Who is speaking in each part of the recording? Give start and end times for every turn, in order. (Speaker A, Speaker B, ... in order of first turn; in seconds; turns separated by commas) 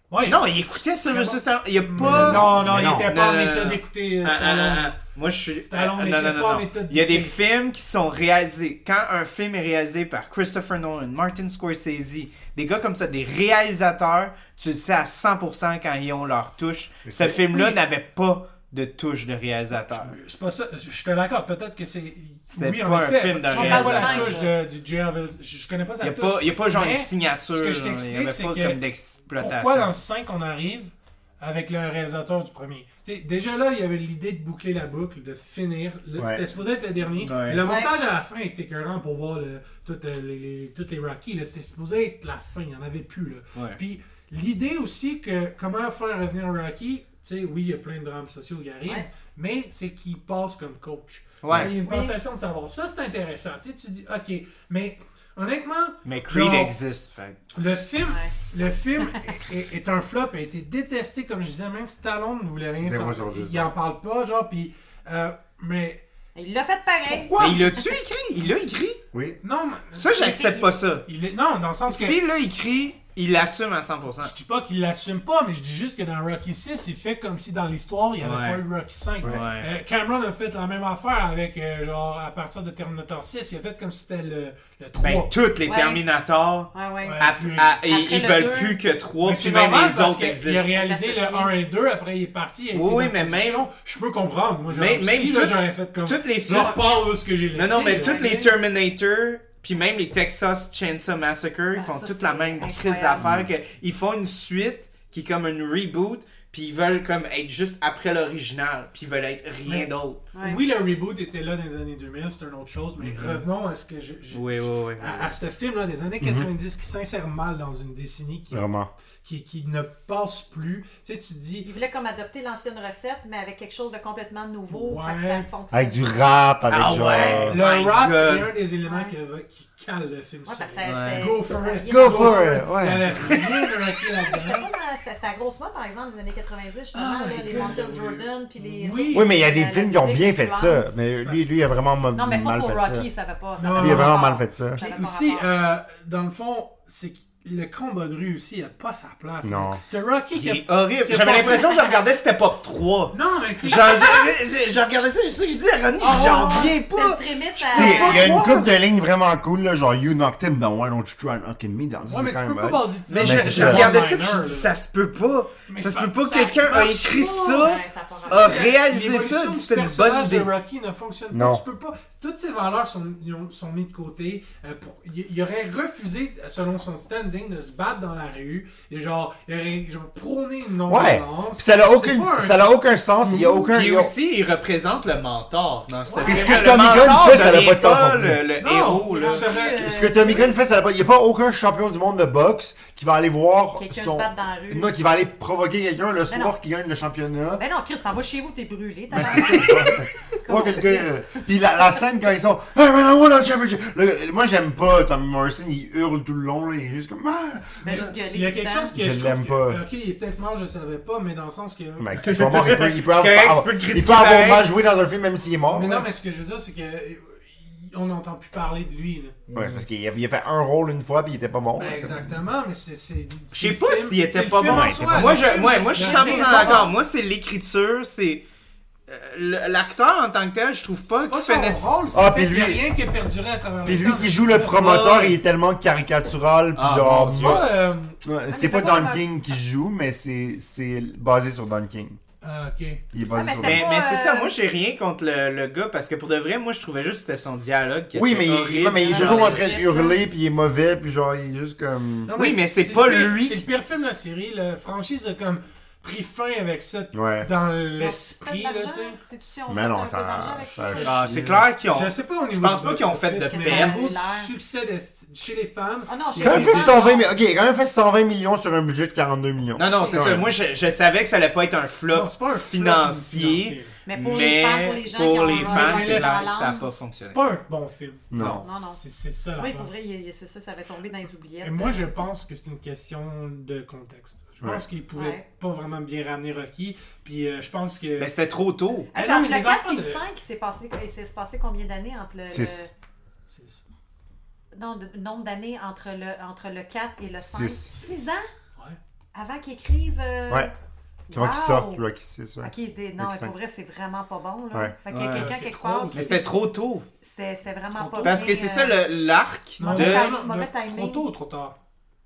Speaker A: 0.1-0.5, Speaker B: 0.3-20.1, Speaker A: 1.1-4.9, Speaker C: 2.0-3.1, Speaker A: 5.6-7.3, Speaker C: 17.1-17.4, Speaker A: 17.5-17.8, Speaker A: 19.9-28.8, Speaker B: 22.5-24.4, Speaker D: 23.5-24.5, Speaker B: 26.0-29.9, Speaker A: 29.4-56.8, Speaker C: 36.2-36.4, Speaker B: 37.2-37.6, Speaker D: 37.6-37.9, Speaker B: 51.4-51.7, Speaker D: 51.7-52.2, Speaker B: 56.0-57.4, Speaker A: 57.5-66.0, Speaker D: 58.1-58.4, Speaker C: 62.8-63.7, Speaker D: 66.3-67.8, Speaker A: 67.1-67.7, Speaker B: 67.4-69.0, Speaker C: 69.1-69.4, Speaker A: 69.4-70.3, Speaker B: 70.0-71.1, Speaker D: 70.1-70.8, Speaker A: 71.0-72.2, Speaker B: 71.9-74.3, Speaker A: 74.2-85.3, Speaker B: 78.2-78.6, Speaker B: 79.2-79.7, Speaker B: 85.0-90.7, Speaker D: 85.7-86.0, Speaker D: 86.7-87.2, Speaker A: 87.0-87.9, Speaker D: 87.8-88.8, Speaker A: 89.2-98.6, Speaker D: 90.7-91.5, Speaker B: 92.7-93.7, Speaker B: 94.7-96.8, Speaker D: 96.5-96.9, Speaker B: 97.5-110.2, Speaker D: 97.7-98.3, Speaker D: 101.8-103.3, Speaker C: 103.2-103.5, Speaker A: 109.7-118.7, Speaker D: 110.3-110.6, Speaker B: 113.0-113.4, Speaker B: 114.3-115.3, Speaker C: 116.2-116.5, Speaker C: 118.5-118.9, Speaker A: 119.2-121.7, Speaker D: 121.6-126.2, Speaker A: 124.7-125.5, Speaker C: 125.7-127.6, Speaker B: 126.7-128.5, Speaker A: 127.2-134.7, Speaker D: 128.9-129.2, Speaker D: 130.5-132.7, Speaker B: 130.8-131.4, Speaker C: 131.9-133.2, Speaker D: 134.2-141.0, Speaker A: 136.9-139.3, Speaker B: 137.3-137.8, Speaker C: 139.1-143.1, Speaker A: 141.1-141.4, Speaker D: 142.1-145.5, Speaker A: 143.6-144.2, Speaker C: 143.8-144.8, Speaker A: 144.8-151.7, Speaker C: 149.4-149.8, Speaker B: 150.3-158.3, Speaker D: 151.4-152.0, Speaker A: 153.1-154.1, Speaker D: 153.7-154.3, Speaker A: 156.0-156.7, Speaker D: 156.0-158.7, Speaker C: 157.7-163.9, Speaker A: 162.1-164.7, Speaker B: 163.1-170.5, Speaker A: 165.7-182.7, Speaker D: 167.6-168.7, Speaker C: 171.3-171.6, Speaker C: 180.9-184.1, Speaker A: 183.2-183.7, Speaker B: 183.7-189.8, Speaker A: 186.1-186.6, Speaker D: 186.1-186.9, Speaker C: 186.2-188.4, Speaker A: 188.6-190.4, Speaker D: 188.7-190.5, Speaker C: 189.8-197.6, Speaker D: 193.8-194.9, Speaker D: 196.3-196.6, Speaker D: 197.6-201.8, Speaker C: 199.1-208.1, Speaker B: 199.3-199.6, Speaker D: 207.8-208.9, Speaker A: 207.9-212.4, Speaker C: 208.9-209.8, Speaker C: 212.0-216.1, Speaker B: 212.2-214.7, Speaker A: 215.7-219.4, Speaker B: 219.5-219.8, Speaker C: 219.5-222.3, Speaker A: 221.8-226.9, Speaker B: 223.5-228.4, Speaker C: 224.7-225.2, Speaker D: 225.2-226.9, Speaker B: 229.1-231.9, Speaker A: 231.2-234.9, Speaker C: 232.1-232.8, Speaker C: 233.8-242.2, Speaker B: 234.7-235.4, Speaker B: 236.8-237.9, Speaker A: 237.2-238.2, Speaker D: 238.5-239.2, Speaker A: 242.4-243.0, Speaker C: 243.1-243.9, Speaker D: 243.3-244.5, Speaker B: 243.6-249.7, Speaker C: 248.2-252.3, Speaker D: 249.1-250.2, Speaker A: 252.3-259.2, Speaker B: 252.4-253.7, Speaker C: 257.1-257.5, Speaker D: 258.0-261.4, Speaker C: 259.7-261.7, Speaker A: 260.9-261.3, Speaker B: 261.0-264.1, Speaker A: 261.8-267.2, Speaker D: 263.5-264.5, Speaker D: 266.1-267.3, Speaker C: 266.4-270.5, Speaker B: 269.8-277.4, Speaker D: 269.9-270.2, Speaker A: 272.1-273.9, Speaker D: 274.1-276.9, Speaker A: 275.4-279.9, Speaker C: 278.3-278.6, Speaker D: 278.6-279.0, Speaker D: 279.6-282.2, Speaker A: 281.6-288.3, Speaker D: 285.1-285.4, Speaker B: 288.2-289.1, Speaker D: 289.1-292.9, Speaker A: 289.1-290.2, Speaker C: 292.5-292.9, Speaker A: 293.5-293.8, Speaker D: 294.8-298.5, Speaker C: 297.5-298.1, Speaker D: 299.3-300.7, Speaker D: 301.3-302.0, Speaker C: 301.3-303.6, Speaker D: 302.6-306.4, Speaker B: 305.1-305.5, Speaker A: 305.2-306.4, Speaker B: 306.1-307.1, Speaker D: 307.2-309.0, Speaker A: 307.9-308.5, Speaker B: 308.2-310.3, Speaker A: 309.8-311.8, Speaker D: 309.8-311.3